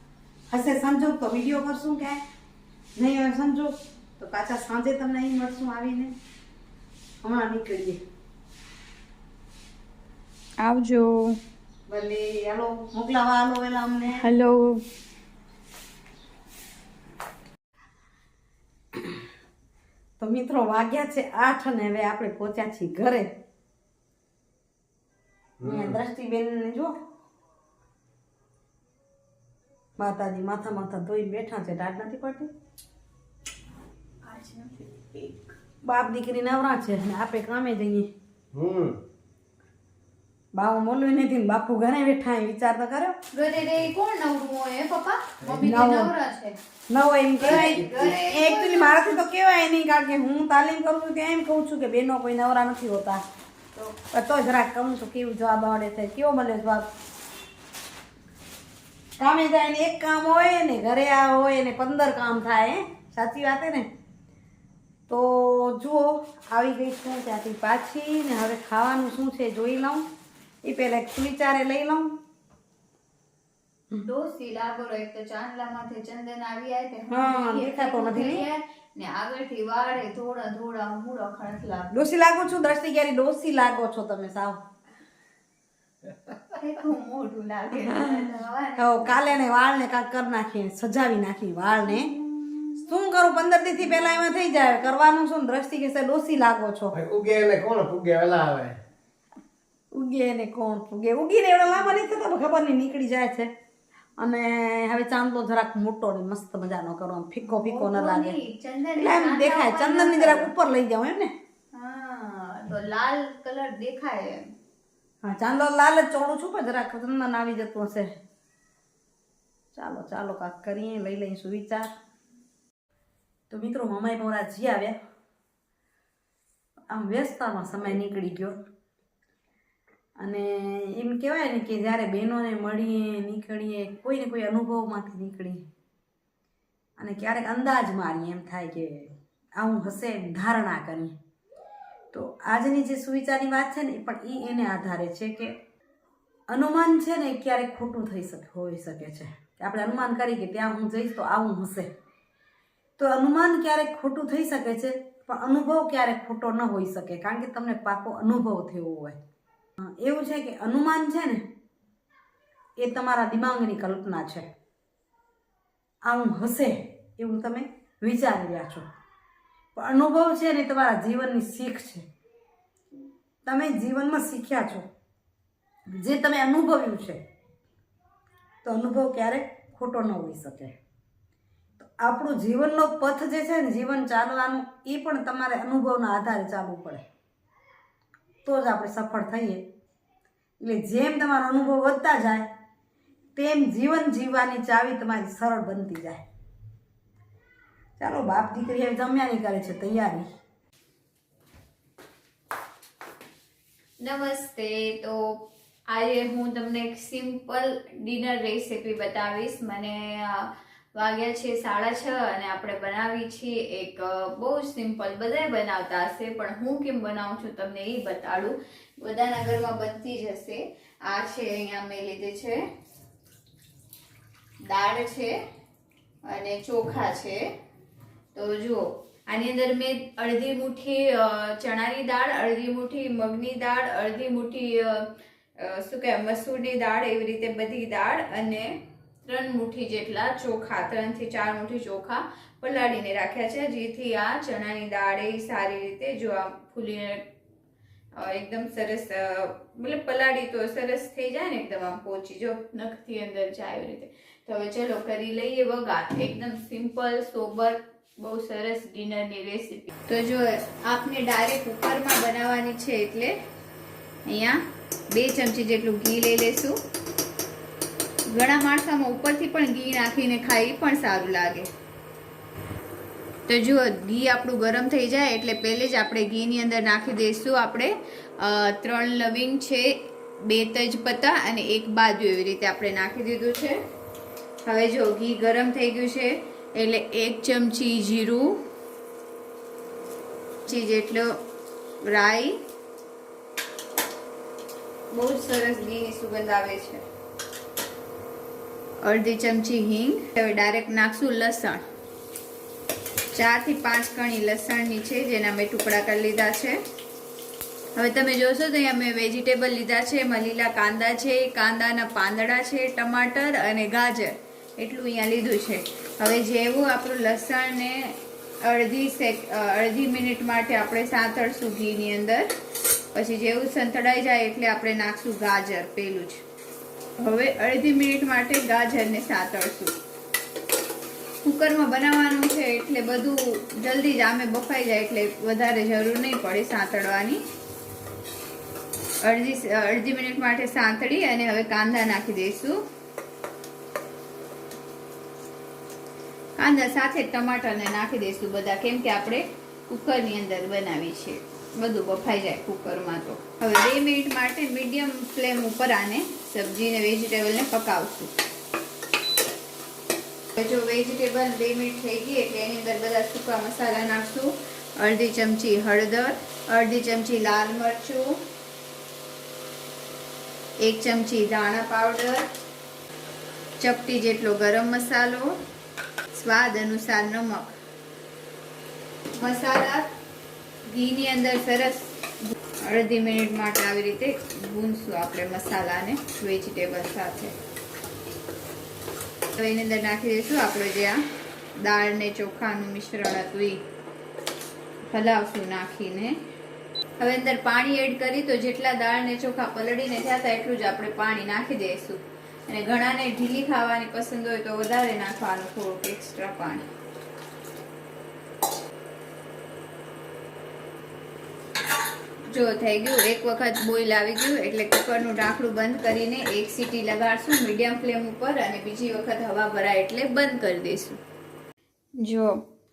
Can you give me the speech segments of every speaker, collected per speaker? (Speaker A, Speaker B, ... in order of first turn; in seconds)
Speaker A: 0.5-2.2, 3.0-6.1, 7.2-8.0, 11.9-14.2, 20.2-23.3, 25.6-26.9, 30.0-32.5, 35.8-38.1, 40.5-43.1, 45.6-46.1, 46.9-53.2, 53.7-56.9, 59.2-63.9, 65.1-70.0, 70.6-72.2, 77.1-78.5, 81.9-84.6, 87.8-92.1, 92.8-96.9, 99.9-103.5, 104.2-108.4, 109.0-111.3, 115.2-118.1, 119.7-121.9, 123.5-124.9, 126.9-128.6, 130.2-135.6, 137.0-141.1, 142.1-145.5, 146.5-151.9, 153.0-159.2, 159.8-161.5, 162.8-164.5, 166.0-168.8, 169.7-172.1, 173.4-174.8, 176.0-177.2, 178.6-180.7, 181.8-187.0, 188.4-189.6, 190.6-192.5, 193.3-196.2, 198.0-200.3
Speaker B: 10.6-11.4, 14.2-14.8, 34.2-35.5, 43.3-46.5, 47.4-49.2, 74.0-81.9, 86.5-89.3, 92.0-92.8, 107.5-110.5, 111.7-114.4, 204.0-222.6, 224.6-225.3, 226.2-227.4, 228.3-247.3, 248.2-263.3, 264.3-264.6, 265.1-266.8, 268.3-271.7, 273.5-283.8, 284.6-288.6, 290.6-291.3, 292.0-292.6, 295.1-297.0, 299.0-301.8, 303.3-306.8, 307.9-322.5, 323.1-326.4, 327.2-329.9, 331.4-337.4, 339.2-342.8, 346.6-358.3, 360.6-368.4, 370.8-372.4, 373.8-375.5, 376.3-377.8, 379.4-380.1, 380.9-387.6, 389.5-391.2, 391.8-393.8, 395.1-396.4, 397.2-406.8, 412.5-421.2, 422.2-422.5
Speaker C: 25.6-26.0, 38.5-39.0, 96.9-98.8